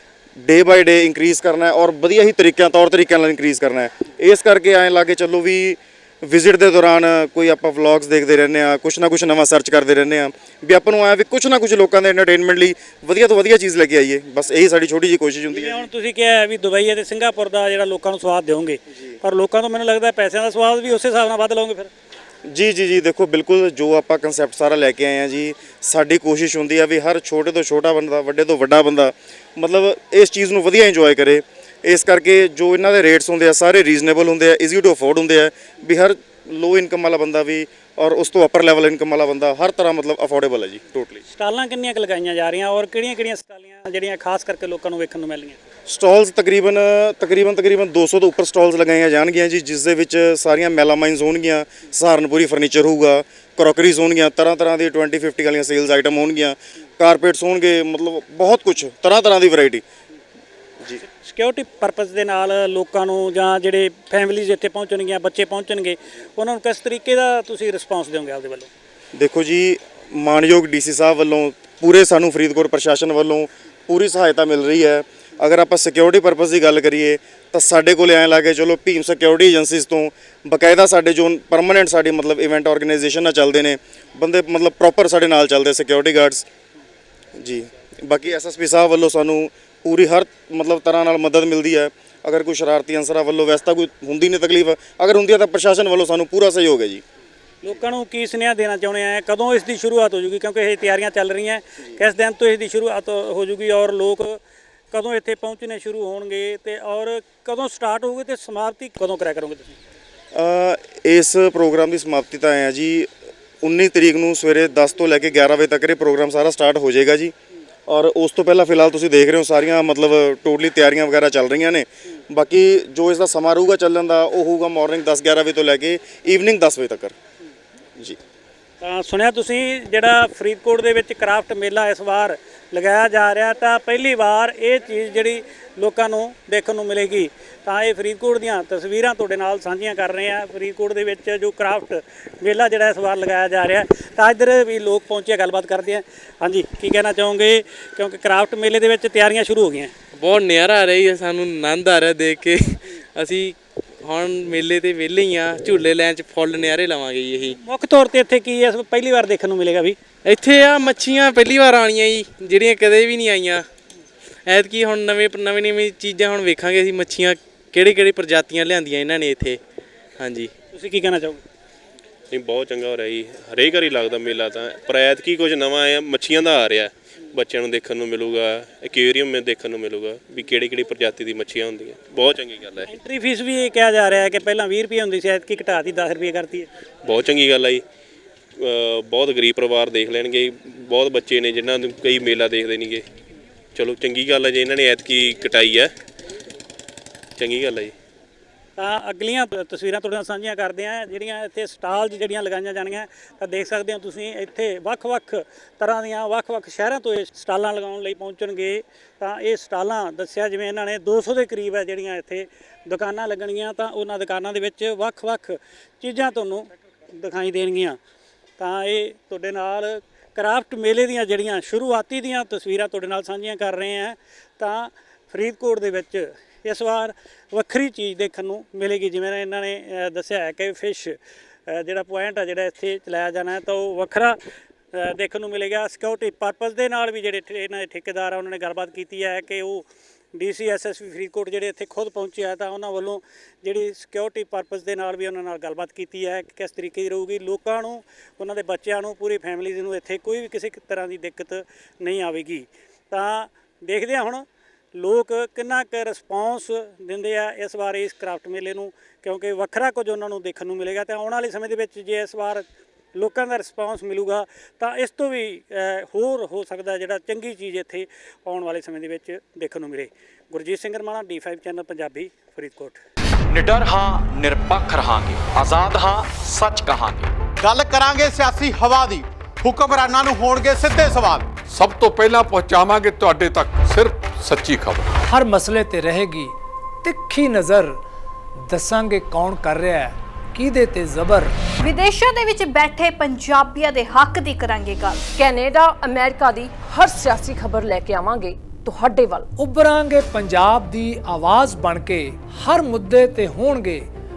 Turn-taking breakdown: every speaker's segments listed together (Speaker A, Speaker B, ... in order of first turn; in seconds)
Speaker A: 0.4-15.8, 22.5-41.2, 45.9-59.8, 69.2-86.5, 87.4-97.0, 110.3-113.1, 113.6-117.3, 117.9-127.1
Speaker B: 15.5-21.9, 41.3-45.6, 61.2-68.7, 97.6-104.4, 104.9-109.7, 128.8-149.9, 157.5-160.0, 170.7-171.4, 182.9-186.7, 198.8-218.0, 218.6-234.4, 234.9-273.0
Speaker C: 150.2-157.6, 160.2-163.7, 164.5-169.6, 170.2-170.5
Speaker D: 172.3-182.9, 187.0-187.8, 188.6-193.0, 193.7-195.9, 197.4-197.9
Speaker E: 273.5-277.3
Speaker F: 277.6-281.6
Speaker G: 281.6-285.1
Speaker H: 285.3-288.0, 288.7-291.5, 299.6-304.1
Speaker I: 291.8-295.3
Speaker J: 295.4-299.5